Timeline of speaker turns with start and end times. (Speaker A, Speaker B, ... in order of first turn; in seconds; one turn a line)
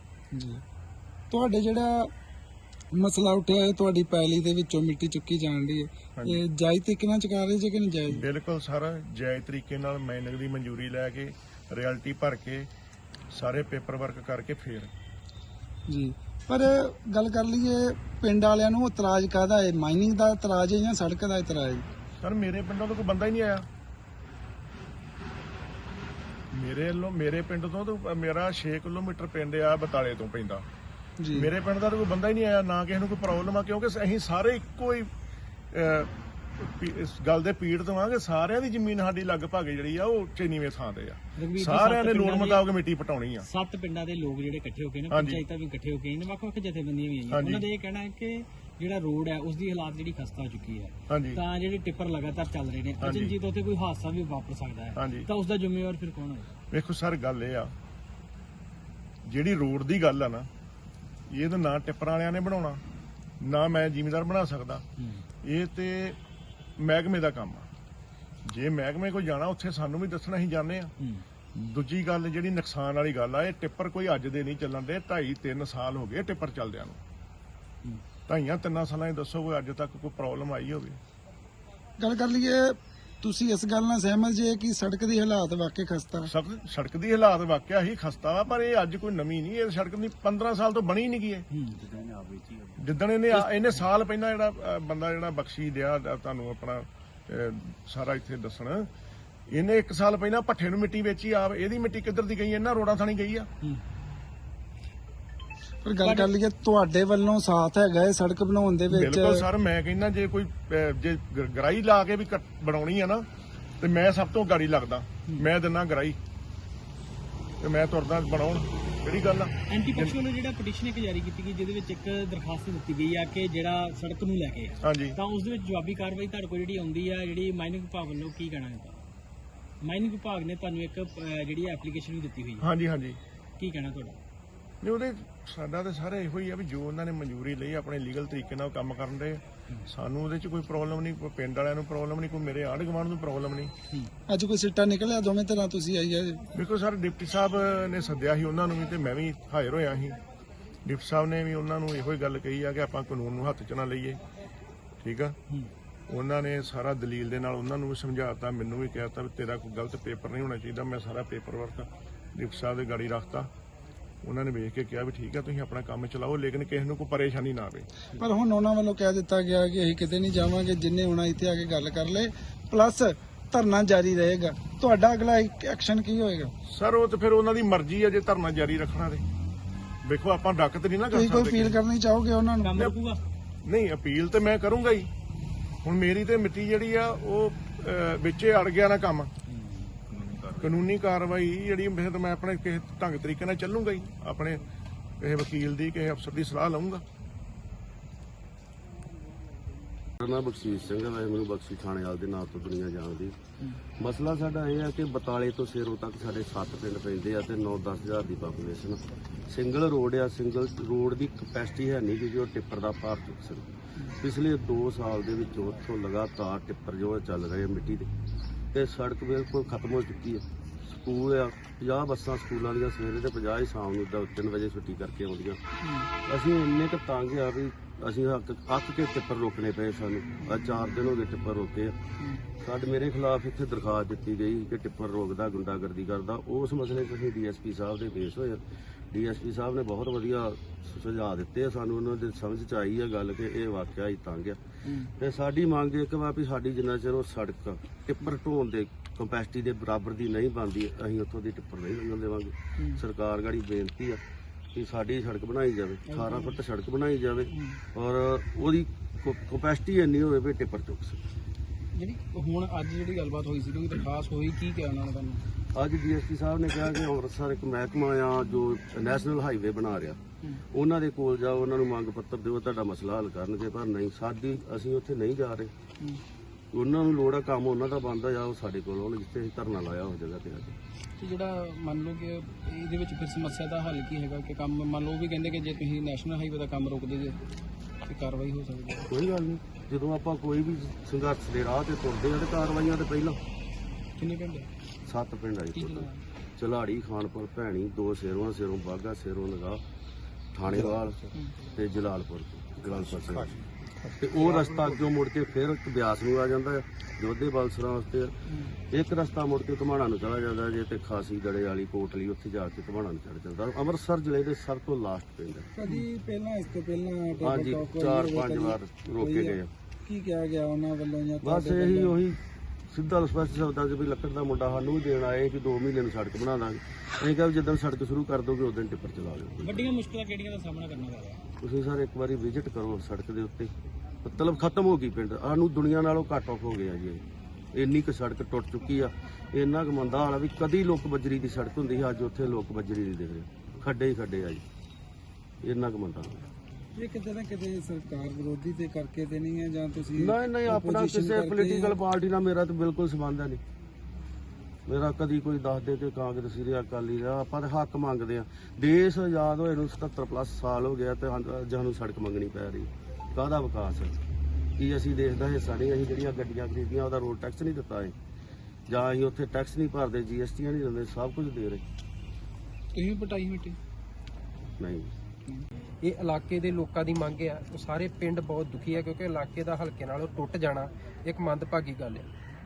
Speaker A: 0.3-0.6
Speaker A: 1.3-2.1
Speaker A: 2.9-8.3
Speaker B: 8.1-12.7
Speaker B: 13.3-14.9
Speaker A: 15.9-21.9
Speaker B: 22.2-23.7
Speaker B: 26.5-30.6
Speaker A: 31.2-31.5
Speaker B: 31.3-35.1
Speaker B: 35.7-43.5
Speaker C: 41.4-42.7
Speaker C: 43.4-56.5
Speaker B: 45.1-45.4
Speaker B: 47.3-47.7
Speaker B: 51.1-51.4
Speaker B: 53.0-53.4
Speaker B: 55.0-55.3
Speaker B: 56.7-57.7
Speaker B: 59.3-60.5
Speaker B: 61.3-62.8
Speaker B: 63.4-64.8
Speaker C: 65.0-65.2
Speaker B: 65.4-66.2
Speaker B: 66.8-67.7
Speaker B: 68.5-70.9
Speaker C: 71.0-71.2
Speaker B: 71.5-77.0
Speaker B: 78.3-81.0
Speaker A: 82.0-86.3
Speaker B: 86.3-91.5
Speaker C: 91.5-92.3
Speaker B: 92.8-98.9
Speaker B: 99.5-103.5
Speaker A: 105.8-109.5
Speaker C: 106.0-106.3
Speaker B: 108.9-113.3
Speaker B: 113.8-116.2
Speaker B: 117.6-120.2
Speaker C: 119.7-129.0
Speaker B: 124.8-125.2
Speaker C: 129.8-132.7
Speaker B: 132.6-133.2
Speaker C: 133.6-134.2
Speaker B: 134.8-143.7
Speaker A: 144.3-146.4
Speaker B: 146.6-150.2
Speaker B: 150.9-154.2
Speaker B: 155.0-155.3
Speaker B: 156.1-163.5
Speaker B: 164.2-167.9
Speaker A: 168.2-176.5
Speaker B: 176.7-179.2
Speaker B: 180.0-181.8
Speaker A: 181.1-182.8
Speaker C: 182.6-183.2
Speaker B: 183.7-185.1
Speaker B: 185.8-189.3
Speaker B: 190.6-194.6
Speaker B: 195.2-197.0
Speaker D: 200.2-203.4
Speaker D: 204.0-218.1
Speaker D: 218.7-225.6
Speaker E: 225.8-226.1
Speaker D: 226.2-232.0
Speaker D: 232.6-244.6
Speaker E: 244.8-245.1
Speaker D: 245.2-254.2
Speaker D: 254.7-261.2
Speaker E: 256.1-256.6
Speaker E: 257.5-257.8
Speaker E: 262.0-265.4
Speaker D: 265.7-275.7
Speaker D: 276.7-280.8
Speaker E: 281.2-287.4
Speaker E: 288.1-289.1
Speaker D: 289.1-293.4
Speaker E: 294.2-294.7
Speaker D: 295.1-299.8
Speaker E: 295.7-296.2
Speaker D: 300.5-303.6
Speaker E: 300.7-301.6
Speaker D: 304.2-308.3
Speaker E: 304.4-304.9
Speaker D: 308.9-315.7
Speaker A: 315.8-322.2
Speaker D: 317.4-319.7
Speaker D: 321.4-329.9
Speaker C: 329.6-331.5
Speaker D: 331.6-333.7
Speaker D: 334.2-337.2
Speaker D: 337.7-344.6
Speaker D: 345.6-346.4
Speaker A: 347.0-352.0
Speaker D: 350.2-353.6
Speaker D: 354.9-364.1
Speaker D: 364.8-368.1
Speaker D: 368.9-371.8
Speaker E: 372.9-373.8
Speaker D: 374.8-375.1
Speaker F: 376.0-382.3